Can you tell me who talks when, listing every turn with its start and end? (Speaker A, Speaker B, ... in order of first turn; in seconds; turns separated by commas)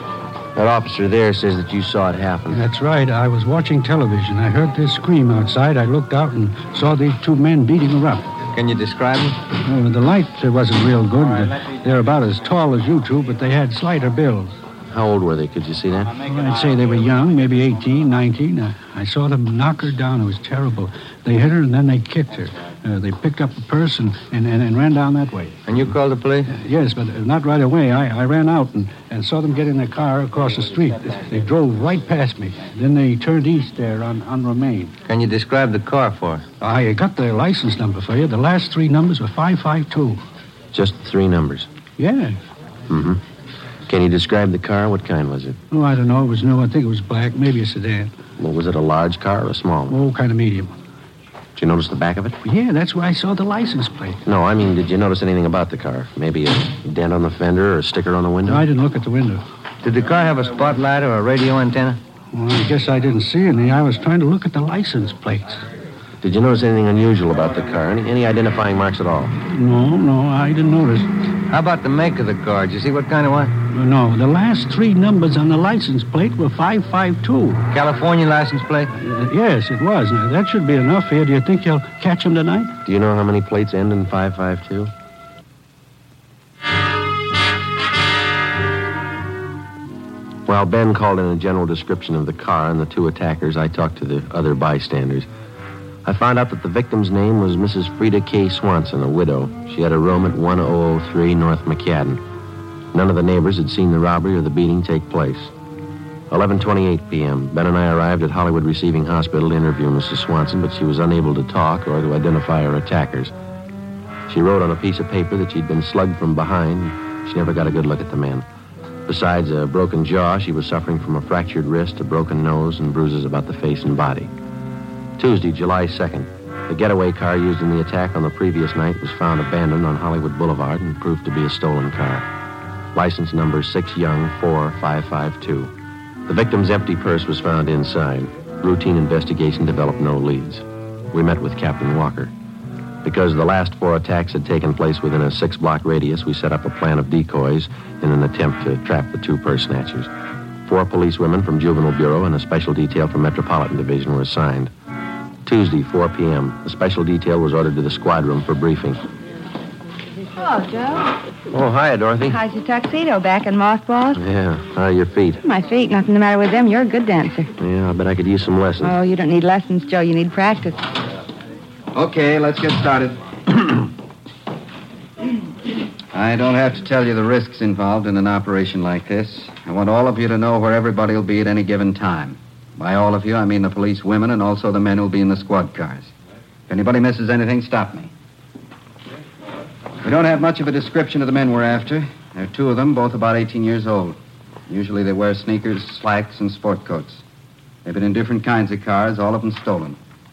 Speaker A: 0.6-2.6, Speaker B: 2.5-8.2, Speaker C: 8.5-9.4, Speaker B: 9.6-14.6, Speaker A: 14.9-16.1, Speaker B: 16.2-25.6, Speaker C: 25.7-26.5, Speaker B: 26.5-35.0, Speaker C: 35.0-36.5, Speaker B: 36.6-40.2, Speaker A: 40.7-41.7, Speaker B: 42.0-42.4, Speaker A: 42.9-43.2, Speaker A: 43.9-45.6, Speaker B: 45.7-48.1, Speaker A: 48.4-50.0, Speaker B: 49.9-50.7, Speaker A: 51.6-52.4, Speaker B: 52.4-54.2, Speaker A: 54.3-58.7, Speaker B: 58.5-59.4, Speaker C: 59.8-62.0, Speaker B: 62.3-65.6, Speaker A: 66.2-69.3, Speaker B: 69.5-71.1, Speaker C: 71.5-73.5, Speaker B: 73.7-77.7, Speaker C: 77.7-78.9, Speaker B: 79.0-82.8, Speaker A: 82.8-84.9, Speaker A: 90.5-95.3, Speaker A: 96.0-102.2, Speaker A: 102.9-105.5, Speaker A: 106.3-113.3, Speaker A: 114.3-118.5, Speaker A: 119.1-124.3, Speaker A: 125.2-132.3, Speaker A: 132.9-135.7, Speaker A: 136.3-142.3, Speaker A: 143.0-150.1, Speaker A: 150.7-154.7, Speaker A: 155.4-159.0, Speaker D: 160.3-161.2, Speaker A: 161.5-162.4, Speaker D: 162.3-164.2, Speaker A: 164.2-165.4, Speaker D: 165.4-167.5, Speaker A: 167.6-169.0, Speaker D: 168.8-170.9, Speaker E: 171.9-173.2, Speaker E: 176.1-186.1, Speaker E: 186.7-188.1, Speaker E: 190.0-194.2, Speaker E: 194.7-197.2, Speaker E: 197.8-200.0